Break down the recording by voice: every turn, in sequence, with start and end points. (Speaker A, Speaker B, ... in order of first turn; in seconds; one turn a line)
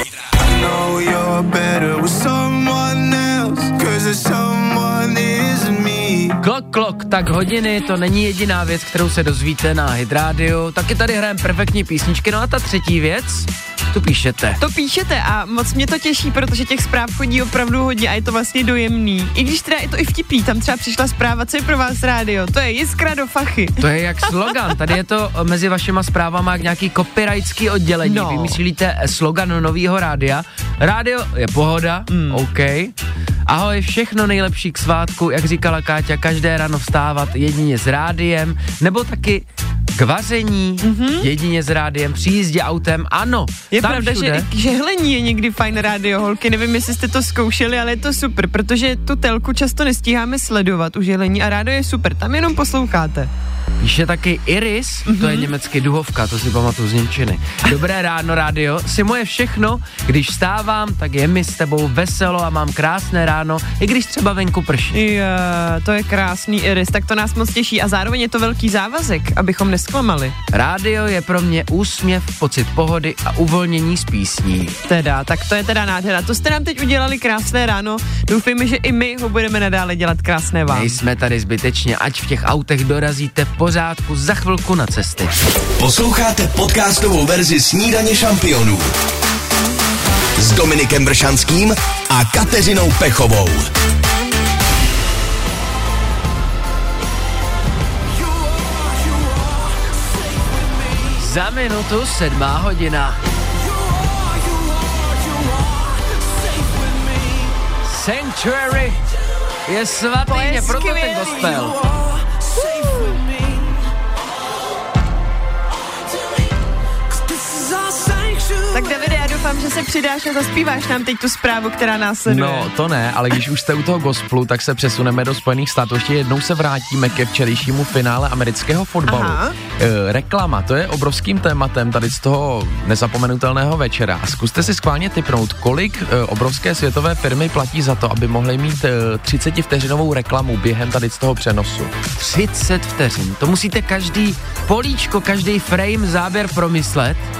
Speaker A: 0.4-6.4
Speaker B: 6.4-14.6
Speaker C: 14.6-23.8
Speaker B: 23.8-32.9
Speaker C: 28.0-28.6
Speaker C: 32.1-32.4
Speaker B: 33.5-44.5
Speaker C: 40.8-41.3
Speaker C: 43.7-53.3
Speaker B: 53.8-65.0
Speaker C: 55.1-55.5
Speaker C: 64.9-70.3
Speaker B: 70.5-74.8
Speaker C: 74.9-81.0
Speaker B: 80.7-85.3
Speaker D: 85.8-88.9
Speaker D: 90.4-93.7
Speaker A: 98.1-101.1
Speaker B: 101.2-103.2
Speaker A: 103.6-107.6
Speaker B: 107.8-109.0
Speaker B: 109.7-111.8
Speaker C: 110.2-111.7
Speaker A: 111.8-113.8
Speaker A: 115.9-116.3
Speaker A: 117.1-119.1
Speaker C: 118.7-122.7
Speaker E: 122.3-141.9
Speaker C: 129.1-129.5
Speaker B: 142.2-147.2